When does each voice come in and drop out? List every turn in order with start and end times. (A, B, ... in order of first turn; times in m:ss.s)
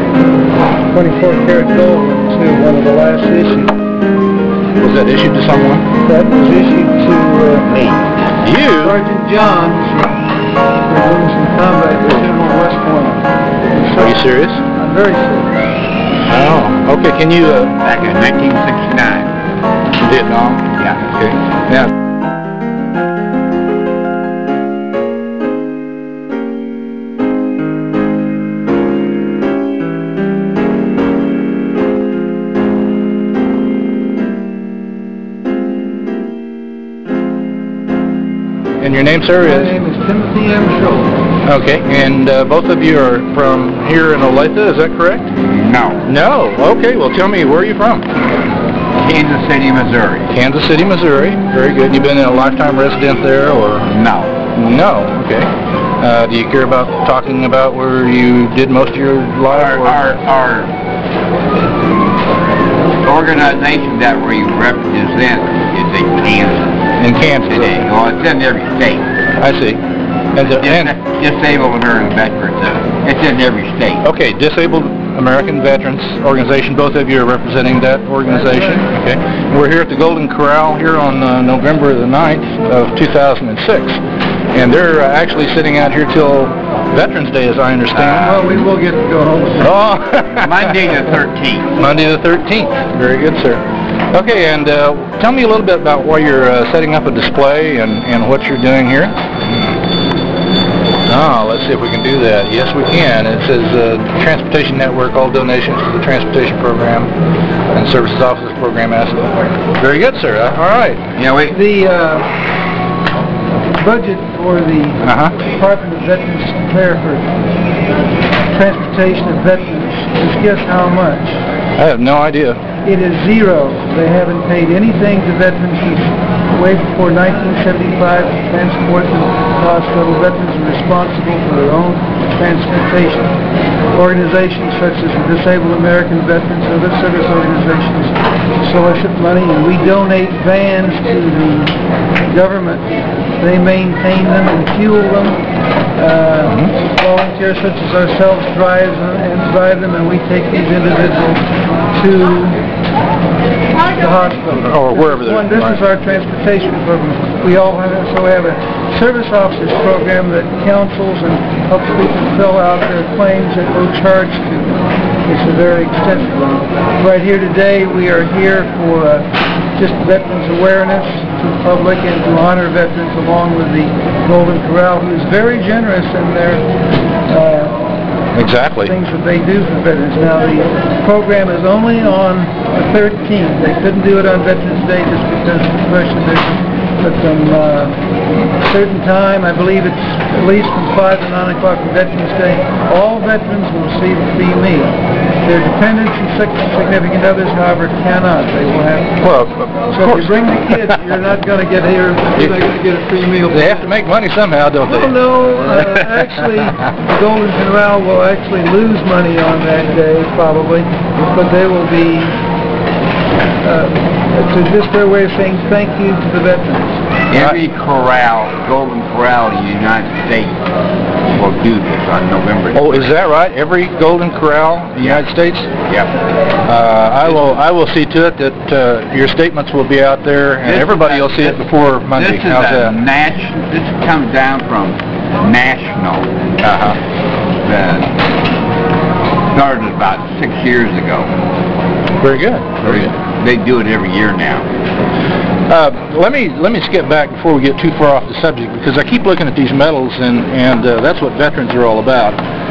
0:00.9-0:03.7 A
0:04.8-0:05.9 B
0:06.0-0:08.2 A
0:08.4-0:09.0 B
0:08.8-0:10.2 A
0:10.9-0:14.2 A
0:14.0-0:14.6 B
0:14.7-0:15.5 A
0:16.2-0:17.8 B
0:17.8-0:19.3 C
0:20.0-0:21.9 B
0:38.8-0:39.7 B
0:39.4-0:41.1 A
0:41.4-0:45.2 B
0:45.4-0:46.0 C
0:46.0-0:48.1 B
0:49.0-0:50.3 C
0:50.3-0:53.9 B
0:53.8-0:54.4 C
0:54.5-1:00.0 B
0:59.5-1:00.7 C
1:03.0-1:06.7 C
1:07.0-1:07.7 B
1:07.5-1:09.1 C
1:09.4-1:09.8 B
1:10.3-1:10.9 B
1:10.6-1:14.0 C
1:14.0-1:24.0 B
1:24.5-1:28.4 B
1:28.0-1:29.7 A
1:29.6-1:30.9 B
1:30.4-1:31.7 C
1:31.8-1:39.8 B
1:41.1-1:47.1 B
1:47.7-1:51.0 B
1:51.2-1:51.6 C
1:51.5-1:52.3 A
1:53.8-1:57.3 A
1:55.0-1:55.3 B
1:58.5-2:01.4 A
2:01.8-2:02.6 B
2:02.8-2:13.3 A
2:13.9-2:25.4 A
2:26.0-2:32.6 A
2:26.5-2:26.7 B
2:33.8-2:56.7 A
2:34.5-2:35.8 B
2:57.3-2:57.8 A
2:58.3-2:58.9 B
2:58.8-3:08.0 A
3:08.6-3:19.2 A
3:19.2-3:20.3 B
3:19.9-3:23.9 A
3:23.5-3:25.2 B
3:24.8-3:32.4 A
3:25.9-3:26.7 B
3:33.6-3:37.0 A
3:37.3-3:40.6 C
3:41.3-3:43.1 C
3:42.7-3:45.7 B
3:46.6-3:53.0 B
3:50.6-3:51.5 C
3:52.1-3:57.0 C
3:57.6-3:58.1 C
3:59.5-4:01.3 C
4:02.2-4:03.1 B
4:02.8-4:04.7 C
4:05.7-4:12.4 B